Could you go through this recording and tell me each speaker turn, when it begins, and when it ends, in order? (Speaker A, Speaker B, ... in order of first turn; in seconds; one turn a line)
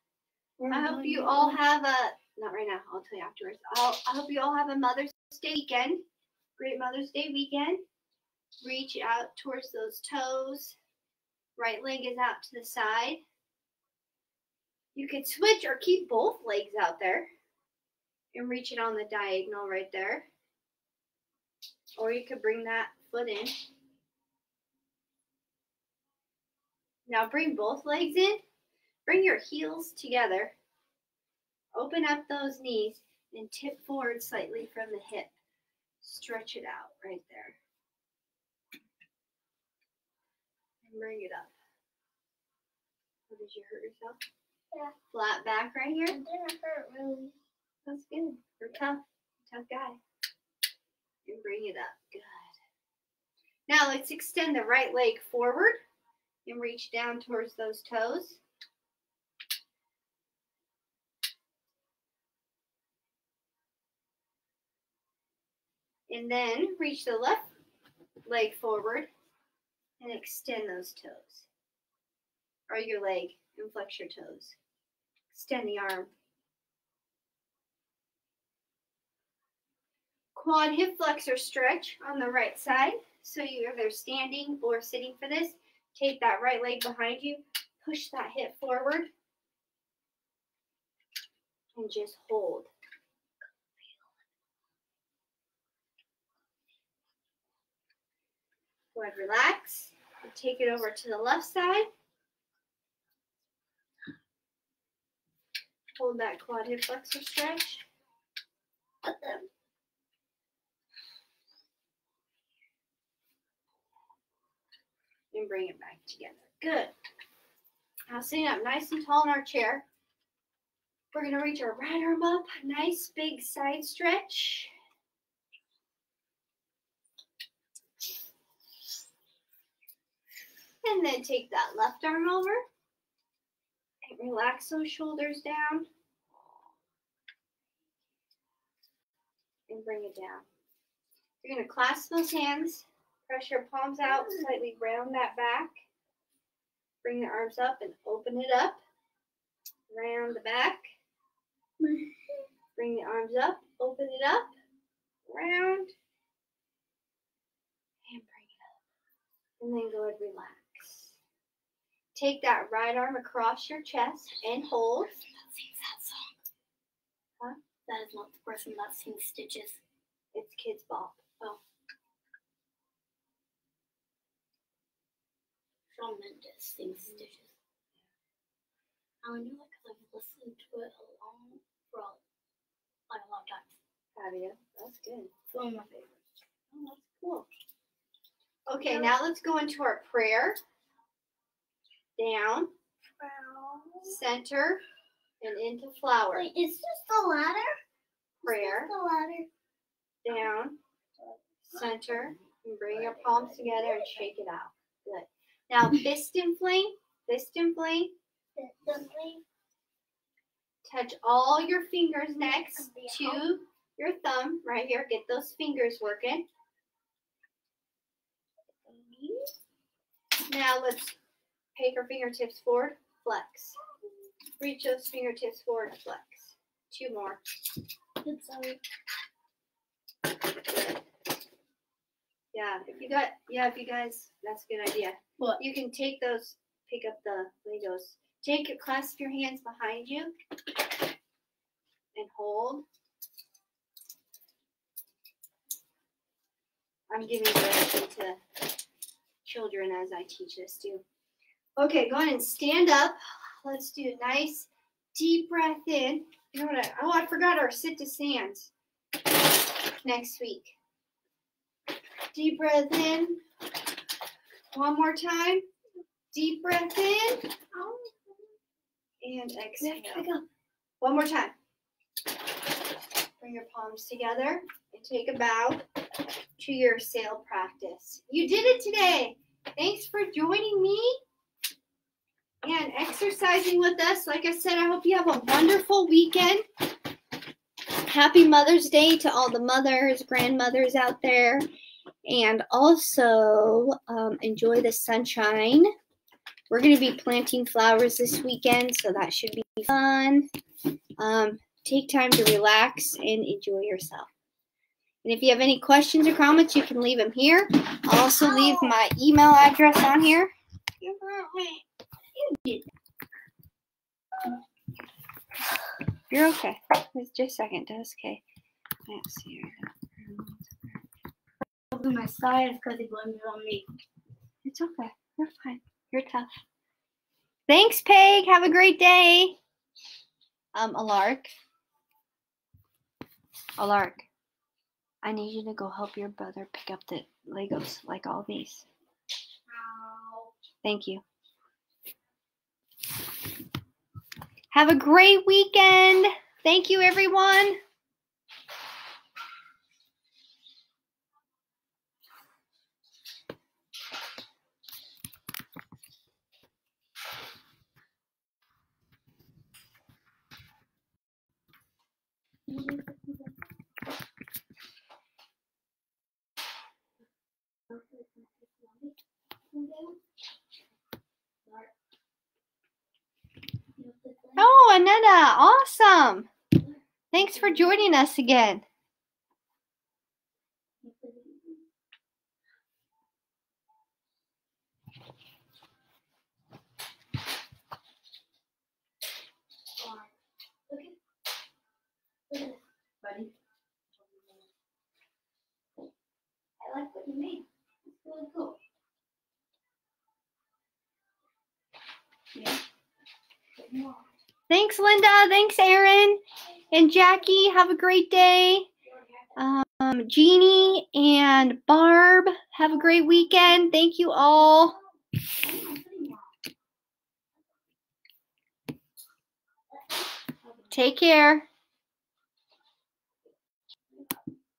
Speaker A: 0.6-1.5
Speaker B: 0.7-6.0
Speaker B: 6.6-7.8
Speaker B: 8.6-10.8
Speaker B: 11.6-13.2
Speaker B: 14.9-17.3
Speaker B: 18.3-20.3
Speaker B: 22.0-23.5
Speaker B: 27.1-28.4
Speaker B: 29.1-30.5
Speaker B: 31.7-35.3
Speaker B: 36.0-37.6
Speaker B: 40.8-41.5
Speaker B: 43.3-44.2
Speaker B: 45.1-46.2
Speaker C: 46.1-47.3
Speaker B: 47.9-50.0
Speaker B: 51.2-52.5
Speaker B: 53.7-55.8
Speaker B: 56.4-58.4
Speaker B: 66.1-67.4
Speaker B: 68.2-69.1
Speaker B: 70.0-71.5
Speaker B: 72.7-74.5
Speaker B: 75.3-76.1
Speaker B: 80.3-89.1
Speaker B: 91.7-92.7
Speaker B: 98.9-101.9
Speaker B: 106.0-107.8
Speaker C: 109.0-109.5
Speaker B: 115.3-116.9
Speaker B: 118.1-119.8
Speaker B: 121.1-124.7
Speaker B: 130.8-132.6
Speaker B: 134.0-135.9
Speaker B: 139.7-140.4
Speaker B: 141.4-145.8
Speaker B: 147.0-148.8
Speaker B: 149.9-150.9
Speaker C: 151.8-152.4
Speaker B: 152.8-154.5
Speaker B: 155.3-155.9
Speaker B: 158.0-158.6
Speaker B: 159.6-161.2
Speaker B: 162.1-165.2
Speaker A: 165.4-166.4
Speaker A: 167.9-169.8
Speaker B: 170.3-171.3
Speaker A: 175.9-177.5
Speaker A: 179.2-182.2
Speaker A: 183.1-183.7
Speaker B: 184.2-185.3
Speaker A: 185.5-186.2
Speaker B: 186.7-187.5
Speaker B: 188.7-190.6
Speaker B: 192.2-192.7
Speaker C: 193.2-194.2
Speaker B: 194.0-194.8
Speaker B: 195.4-196.5
Speaker C: 196.3-197.8
Speaker C: 198.4-199.5
Speaker B: 198.4-198.9
Speaker B: 200.2-200.8
Speaker C: 201.2-201.8
Speaker B: 201.7-208.1
Speaker C: 203.0-204.3
Speaker C: 208.6-209.4
Speaker B: 210.8-216.4
Speaker C: 212.4-213.5
Speaker A: 218.9-219.3
Speaker C: 219.0-219.3
Speaker B: 220.5-221.1
Speaker B: 221.7-223.8
Speaker B: 224.6-227.4
Speaker C: 228.2-228.8
Speaker B: 232.5-240.3
Speaker B: 242.1-242.8
Speaker B: 247.1-248.4
Speaker B: 249.4-251.0
Speaker B: 251.8-258.7
Speaker B: 260.0-260.7
Speaker B: 262.3-263.4
Speaker B: 264.7-265.7
Speaker B: 266.3-267.6
Speaker B: 269.2-270.2
Speaker A: 269.9-270.4
Speaker B: 271.0-271.5
Speaker B: 273.4-275.8
Speaker B: 276.6-281.2
Speaker B: 282.6-286.6
Speaker B: 288.0-291.7
Speaker B: 292.2-295.9
Speaker B: 296.7-300.5
Speaker B: 301.2-304.3
Speaker B: 305.2-310.5
Speaker B: 311.1-311.8
Speaker B: 316.3-318.4
Speaker B: 319.1-321.0
Speaker A: 321.9-323.8
Speaker B: 324.6-326.5
Speaker B: 327.7-329.6
Speaker B: 330.7-331.5
Speaker B: 333.8-334.3
Speaker B: 335.2-338.9
Speaker A: 339.7-340.5
Speaker B: 340.8-341.2
Speaker B: 344.7-347.8
Speaker A: 362.7-363.1
Speaker A: 367.9-369.1
Speaker A: 369.7-370.2
Speaker A: 374.0-374.7
Speaker B: 374.6-376.5
Speaker B: 377.3-378.8
Speaker A: 377.4-378.0
Speaker A: 381.0-381.8
Speaker A: 390.0-390.2
Speaker A: 392.5-393.5
Speaker A: 396.8-397.6
Speaker A: 398.1-398.8
Speaker B: 404.7-408.9
Speaker B: 409.6-415.0
Speaker A: 415.6-416.3
Speaker B: 420.9-421.7